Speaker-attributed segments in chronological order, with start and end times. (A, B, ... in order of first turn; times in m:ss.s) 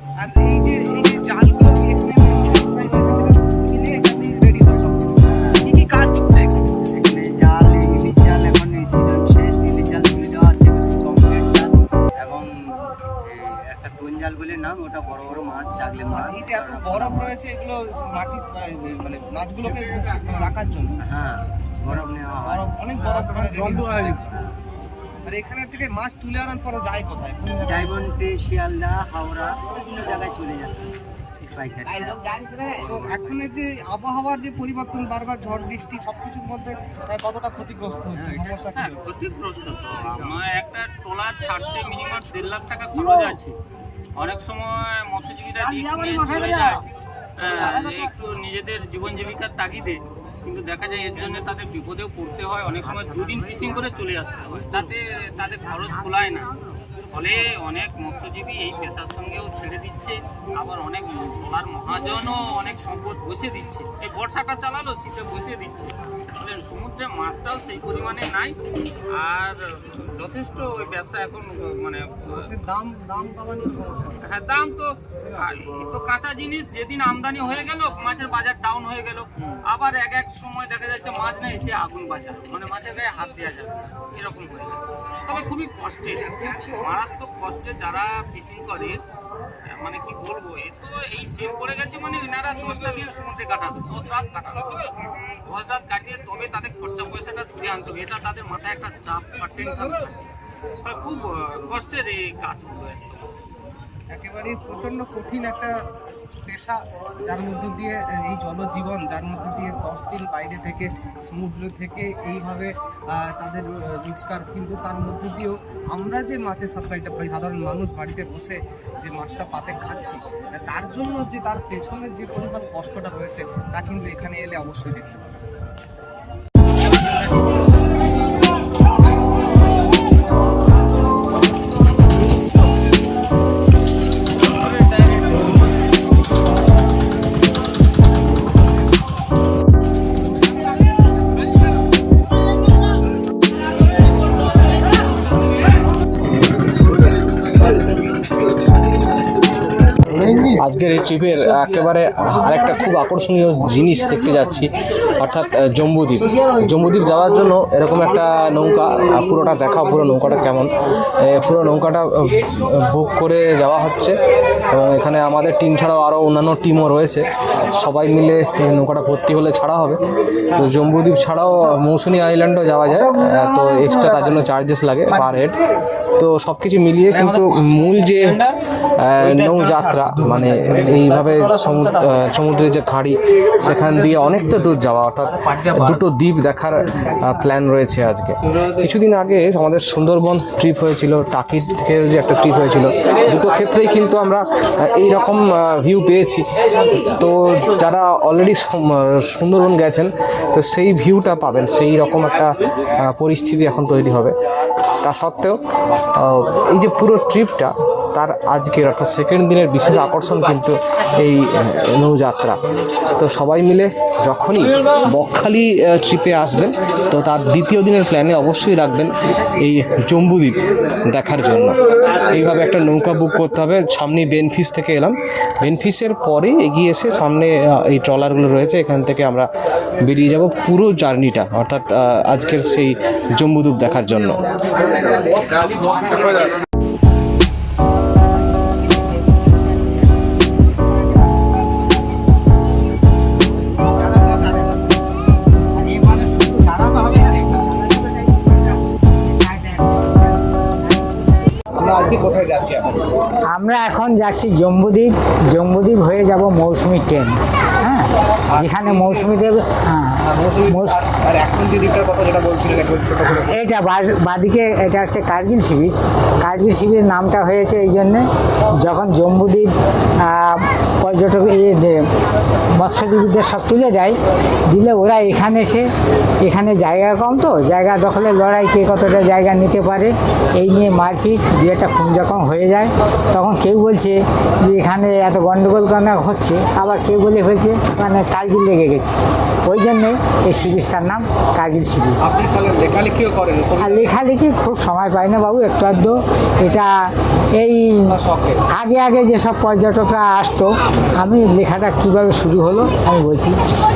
0:00.2-0:06.8 A
0:05.4-0:05.6 B
0:06.8-0:17.3 B
0:16.1-0:21.0 A
0:21.0-0:22.7 B
0:22.4-0:24.2 A
0:24.1-0:24.3 B
0:25.2-0:27.9 A
0:27.6-0:33.3 B
0:32.8-0:39.0 A
0:38.7-0:43.6 C
0:44.2-0:46.8 C
0:45.7-0:46.8 A
0:47.4-0:56.5 C
0:52.9-0:53.7 B
0:57.0-1:08.6 C
1:09.1-1:12.5 C
1:12.3-1:14.2 A
1:14.2-1:29.0 C
1:29.7-1:34.8 C
1:35.4-1:40.1 C
1:40.8-1:43.3 C
1:44.1-1:45.7 A
1:46.4-2:05.1 A
2:30.3-2:44.2 D
2:44.7-2:50.0 D
2:50.5-2:55.6 D
2:56.2-3:16.4 D
3:17.1-3:24.3 D
3:25.0-3:25.6 D
3:26.2-3:49.5 D
3:50.0-3:54.4 D
4:11.8-4:13.0 A
4:13.5-4:21.0 E
4:18.5-4:19.3 A
4:20.5-4:23.5 A
4:23.3-4:28.2 E
4:28.8-4:32.1 E
4:32.8-4:34.2 E
4:34.7-4:35.9 E
4:36.4-4:52.2 E
4:52.2-4:54.1 D
4:53.8-4:58.1 E
4:58.1-4:58.6 D
4:58.7-5:03.6 E